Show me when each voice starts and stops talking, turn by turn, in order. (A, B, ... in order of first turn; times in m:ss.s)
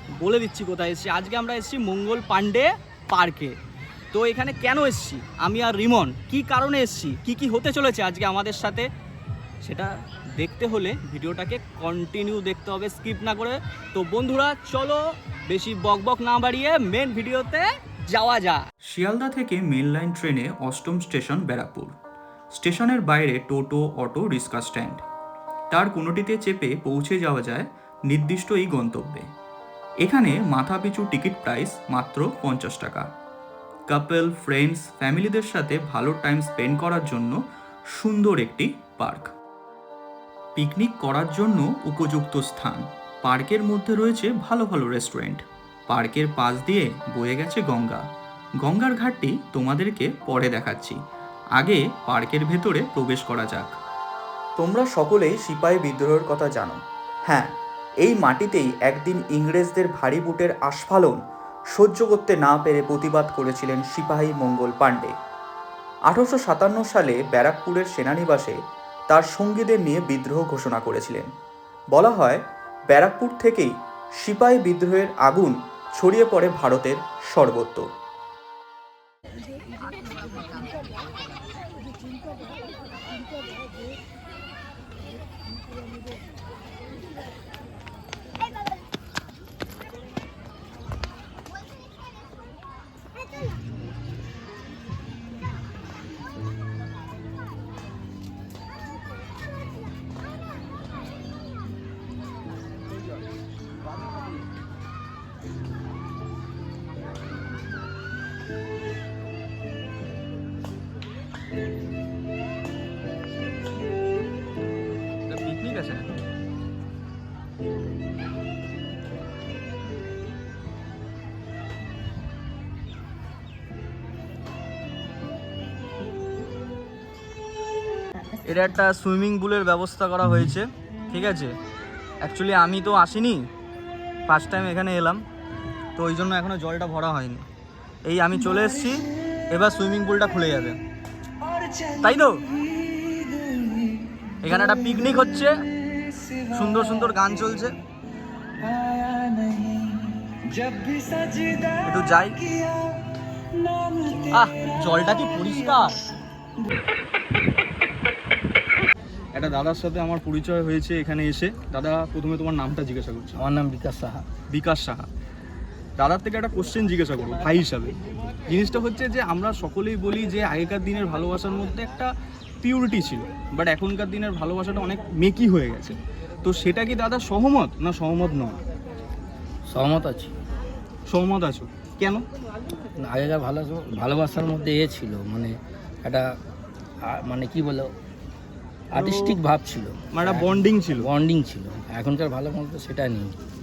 0:00.2-0:03.6 A
0:04.1-0:08.9 A
0:09.6-0:18.6 A
0:18.9-0:22.0 B
0:22.5-0:25.0 B
0:25.7-0:29.3 B
0:30.0-0:33.1 B
0:33.9-0:37.4 B
0:38.0-0:39.3 B
0:40.6-0:48.1 B
0:48.6-0:51.0 B
0:51.6-0:53.8 B
0:54.6-1:01.2 B
1:01.7-1:05.1 B
1:06.1-1:08.6 B
1:09.1-1:11.3 B
1:11.9-1:17.9 B
1:55.3-1:56.1 A
2:08.4-2:11.5 A
2:12.2-2:13.4 A
2:14.3-2:15.2 A
2:16.0-2:17.5 A
2:18.1-2:20.8 A
2:21.7-2:22.5 A
2:24.4-2:25.6 A
2:26.4-2:27.8 A
2:30.5-2:32.4 A
2:34.3-2:36.0 A
2:39.4-2:43.4 A
2:43.4-2:44.3 C
2:44.5-2:45.1 A
2:46.0-2:48.0 A
2:48.5-2:52.1 A
2:52.6-2:58.6 A
2:59.7-3:00.3 C
3:01.1-3:02.2 A
3:03.0-3:06.3 C
3:07.1-3:07.9 C
3:08.9-3:13.4 C
3:08.9-3:09.4 A
3:10.1-3:11.1 A